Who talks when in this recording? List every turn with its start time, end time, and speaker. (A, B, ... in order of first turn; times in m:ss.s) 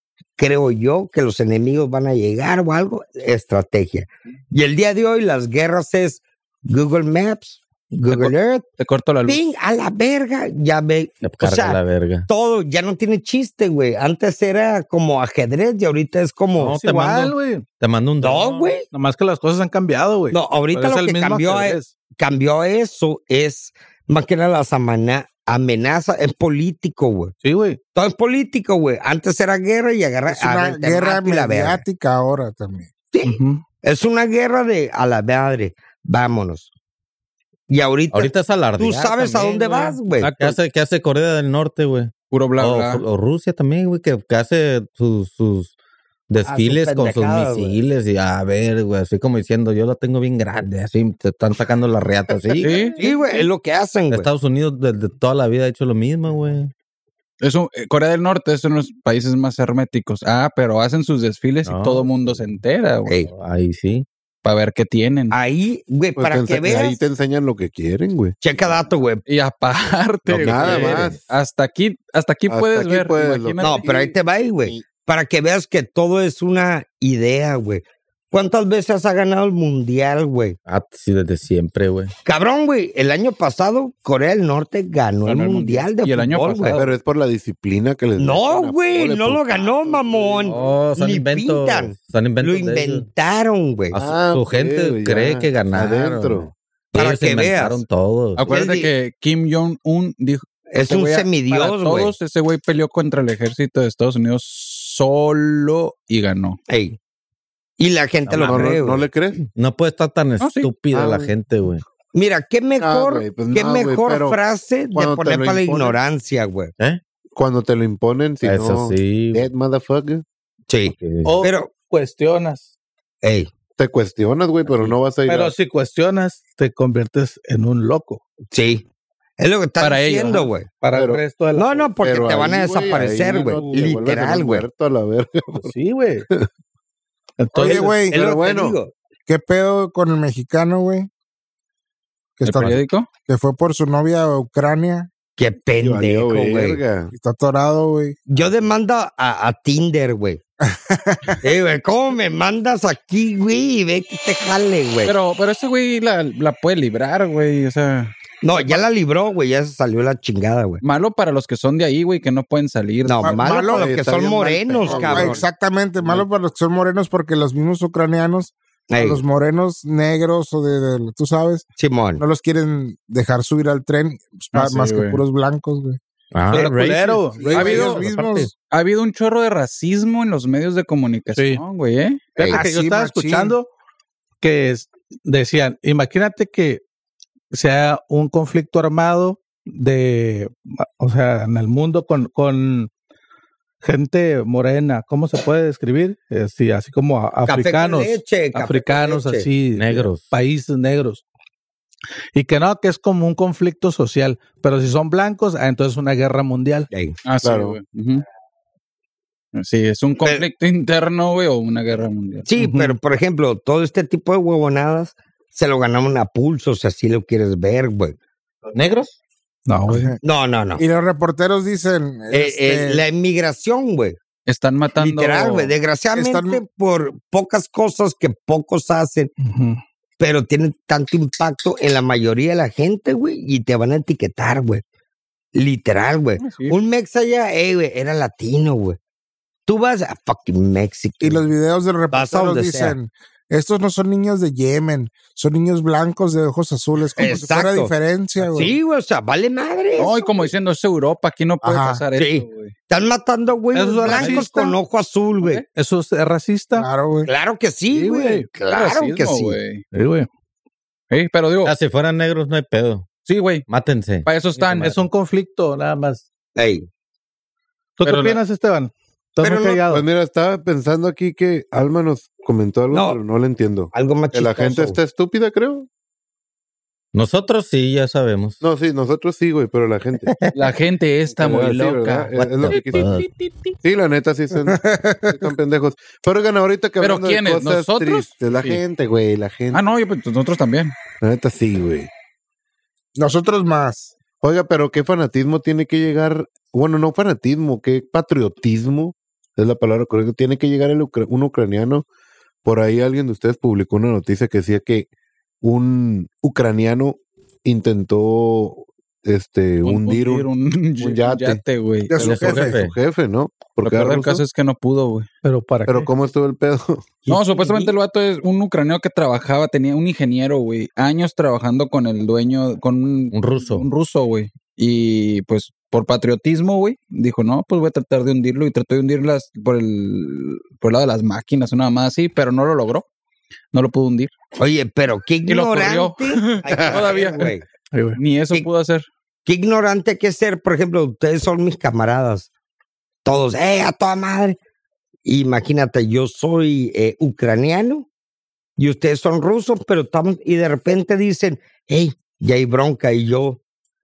0:00.4-0:08.6 A
0:08.1-0:09.5 B
0:09.2-0:16.8 A
0:11.2-0:12.3 C
0:16.6-0:18.7 C
0:16.7-0:17.6 D
0:18.2-0:18.8 A
0:18.9-0:21.9 D
0:20.3-0:27.3 A
0:27.4-0:27.8 D
0:27.9-0:31.8 A
0:30.3-0:32.9 E
0:33.1-0:36.7 A
0:33.2-0:33.6 D
0:37.7-0:40.3 A
0:38.1-0:45.7 C
0:40.2-0:40.6 B
0:42.3-0:43.0 B
0:46.3-0:52.8 C
0:46.4-0:47.8 A
0:52.3-0:53.1 F
0:52.6-0:53.1 B
0:53.0-0:54.3 A
0:54.1-0:56.7 C
0:57.4-1:03.1 B
1:01.6-1:02.5 C
1:03.2-1:04.0 C
1:04.4-1:05.4 B
1:05.3-1:07.0 A
1:06.2-1:08.4 F
1:08.4-1:09.2 A
1:09.3-1:13.9 B
1:10.3-1:11.2 F
1:10.4-1:11.2 C
1:12.5-1:14.2 F
1:13.6-1:20.6 A
1:20.6-1:22.1 C
1:22.2-1:26.8 A
1:25.2-1:27.0 B
1:26.7-1:30.8 F
1:28.2-1:34.0 A
1:30.4-1:33.1 C
1:33.9-1:36.5 F
1:34.3-1:38.4 C
1:36.9-1:37.8 A
1:38.4-1:46.6 B
1:38.5-1:38.9 A
1:40.7-1:42.1 A
1:46.7-1:47.0 A
1:47.8-1:49.0 A
1:48.3-1:48.8 C
1:48.4-1:49.4 F
1:49.5-1:51.8 C
1:50.4-1:50.7 B
1:50.9-1:51.3 F
1:52.1-1:56.7 A
1:52.8-1:54.4 F
1:54.9-1:56.0 F
1:57.3-2:00.2 F
1:58.4-1:59.5 C
2:00.7-2:01.7 A
2:00.8-2:01.4 C
2:01.2-2:02.7 D
2:03.2-2:03.5 A
2:03.8-2:05.5 F
2:04.6-2:05.0 C
2:05.2-2:08.2 D
2:08.5-2:08.8 A
2:09.4-2:10.7 A
2:09.8-2:10.5 B
2:10.8-2:13.9 D
2:10.9-2:11.2 F
2:11.5-2:14.6 A
2:12.0-2:15.7 F
2:15.6-2:16.3 D
2:17.4-2:18.0 D
2:17.6-2:18.1 E
2:17.7-2:18.9 A
2:18.1-2:18.8 F
2:19.3-2:21.1 E
2:22.4-2:25.1 E
2:22.4-2:23.1 B
2:25.4-2:26.8 A
2:25.8-2:27.1 F
2:27.1-2:28.2 E
2:28.3-2:30.4 A
2:30.7-2:31.4 E
2:31.4-2:35.1 A
2:35.0-2:38.8 B
2:38.4-2:40.8 A
2:40.8-2:43.4 B
2:43.0-2:45.4 A
2:43.2-2:43.9 E
2:43.6-2:45.5 F
2:44.8-2:51.7 E
2:46.0-2:46.2 B
2:48.9-2:49.2 A
2:51.8-2:52.2 A
2:52.2-2:56.0 E
2:54.5-2:55.2 B
2:56.3-2:58.4 C
2:56.5-2:58.1 D
2:57.4-2:58.5 E
2:57.5-2:58.0 B
2:58.6-3:02.3 B
3:01.3-3:01.6 D
3:02.4-3:03.7 D
3:02.4-3:02.6 A
3:02.5-3:03.5 E
3:04.4-3:06.8 D
3:07.5-3:12.9 D
3:13.8-3:21.2 D
3:17.4-3:19.5 A
3:19.8-3:20.3 C
3:22.3-3:26.9 D
3:26.9-3:27.2 A
3:27.2-3:28.2 B
3:27.4-3:27.8 F
3:29.5-3:32.5 B
3:30.2-3:30.5 A
3:32.5-3:38.2 A
3:32.6-3:33.0 D
3:38.7-3:39.2 C
3:39.7-3:40.1 D
3:39.9-3:40.2 E
3:40.2-3:40.8 A
3:40.8-3:43.0 E
3:42.3-3:44.2 A
3:44.4-3:45.7 B
3:45.0-3:49.3 A
3:46.1-3:46.6 E
3:49.4-3:49.8 D
3:50.2-3:54.8 A
3:55.5-3:59.0 A
3:56.4-3:56.8 B
3:59.6-4:01.4 A
4:01.2-4:08.8 E
4:02.1-4:03.0 A
4:07.2-4:07.9 A
4:08.5-4:10.5 A
4:10.0-4:12.7 B
4:11.6-4:12.0 E
4:12.2-4:15.6 A
4:13.7-4:14.8 D
4:14.1-4:14.4 C
4:15.7-4:16.9 D
4:16.8-4:17.3 E
4:17.2-4:19.6 A
4:17.9-4:18.4 F
4:18.6-4:19.8 B
4:19.9-4:20.3 D
4:21.1-4:21.7 B
4:21.6-4:23.1 C
4:23.2-4:23.6 B
4:23.7-4:24.3 C
4:24.2-4:25.0 B
4:24.6-4:26.2 D
4:26.6-4:26.9 A
4:28.0-4:30.0 D
4:28.0-4:28.4 C
4:29.4-4:29.7 A
4:29.8-4:35.9 F
4:32.9-4:33.2 A
4:33.9-4:35.0 A
4:37.1-4:38.6 C
4:38.6-4:40.3 F
4:40.2-4:40.5 C
4:40.5-4:43.7 B
4:41.3-4:43.0 F
4:42.3-4:43.3 C
4:43.8-4:49.8 F
4:44.7-4:45.5 E
4:47.0-4:48.8 B
4:49.7-4:50.9 B
4:51.2-4:52.1 F
4:53.2-4:54.1 E
4:54.4-5:02.0 F
5:02.6-5:05.1 F
5:05.6-5:11.6 F
5:09.8-5:12.2 B
5:12.1-5:12.7 E
5:12.1-5:14.4 F
5:12.2-5:12.9 C
5:13.8-5:15.3 B
5:15.4-5:16.1 D
5:15.8-5:17.1 F
5:17.2-5:17.9 A
5:17.3-5:33.1 B
5:23.3-5:23.8 C
5:33.7-5:34.3 B
5:34.6-5:37.6 A
5:35.5-5:37.5 B
5:36.7-5:37.1 F
5:37.9-5:38.2 D
5:38.2-5:39.1 B
5:39.4-5:42.5 A
5:43.2-5:44.6 A
5:45.2-5:48.1 A
5:48.8-5:53.6 A